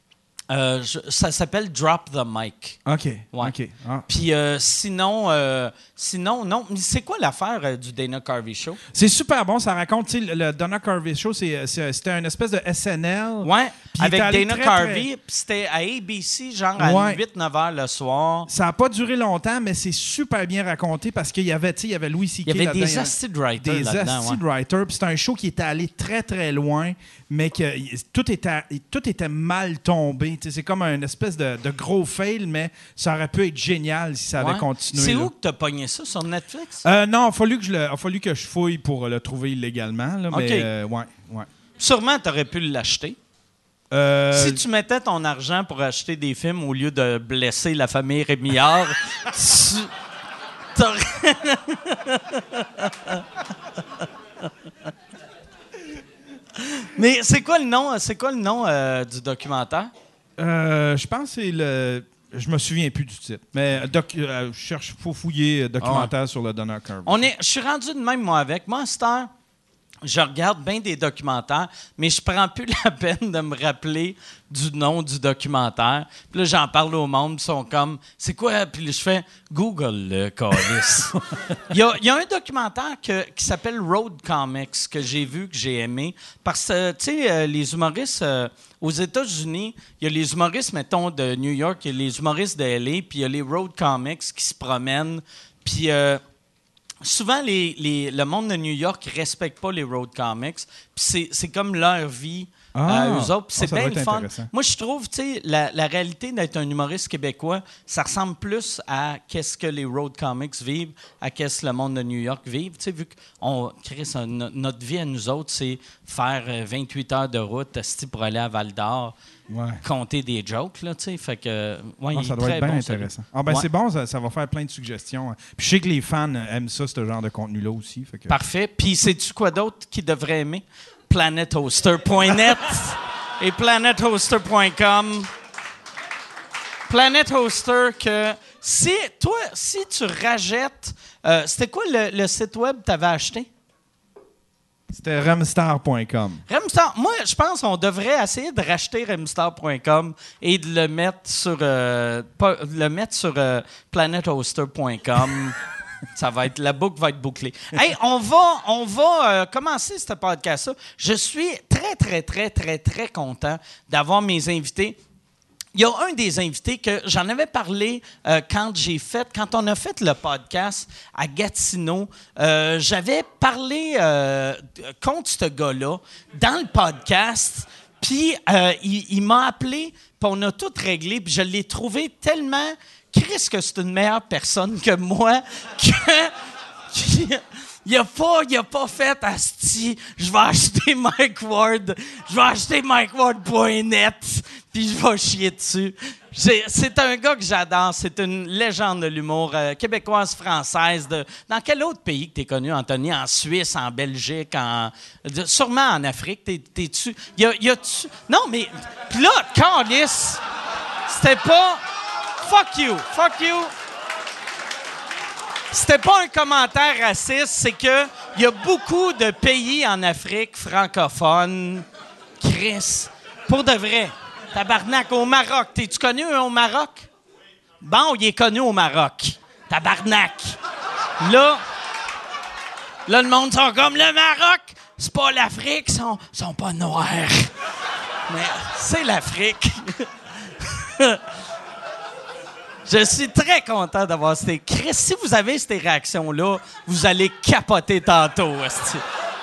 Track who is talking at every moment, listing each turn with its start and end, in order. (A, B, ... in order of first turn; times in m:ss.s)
0:00.5-0:02.8 A
0:02.8-0:04.0 B
0:04.1-0:08.8 A
0:08.9-0:15.1 B
0:13.4-0:18.5 A
0:16.8-0:17.2 B
0:18.5-0:35.3 B
0:22.4-0:24.4 A
0:34.4-0:36.8 A
0:36.8-0:41.5 B
0:40.3-0:40.7 A
0:41.8-0:43.2 A
0:43.9-0:44.6 B
0:44.3-0:49.9 A
0:50.7-0:53.2 A
0:56.7-0:59.9 A
1:00.4-1:07.2 B
1:05.8-1:06.1 A
1:07.0-1:09.3 A
1:10.0-1:21.1 A
1:20.6-1:21.6 B
1:21.7-1:36.2 A
1:37.0-1:59.1 A
1:42.7-1:44.5 B
1:59.5-1:59.8 B
1:59.8-2:03.6 A
2:02.1-2:08.3 B
2:08.3-2:15.3 A
2:16.9-2:23.5 A
2:24.9-2:26.4 B
2:26.5-2:35.6 A
2:36.1-2:45.0 A
2:45.7-3:06.3 A
3:06.9-3:30.4 A
3:31.1-3:31.8 A
3:32.4-3:33.7 A
3:35.7-3:41.8 A
3:42.4-3:47.1 A
3:47.8-3:50.6 A
3:51.2-3:51.6 A
3:53.1-3:57.5 A
3:58.3-4:01.2 A
4:02.8-4:09.0 A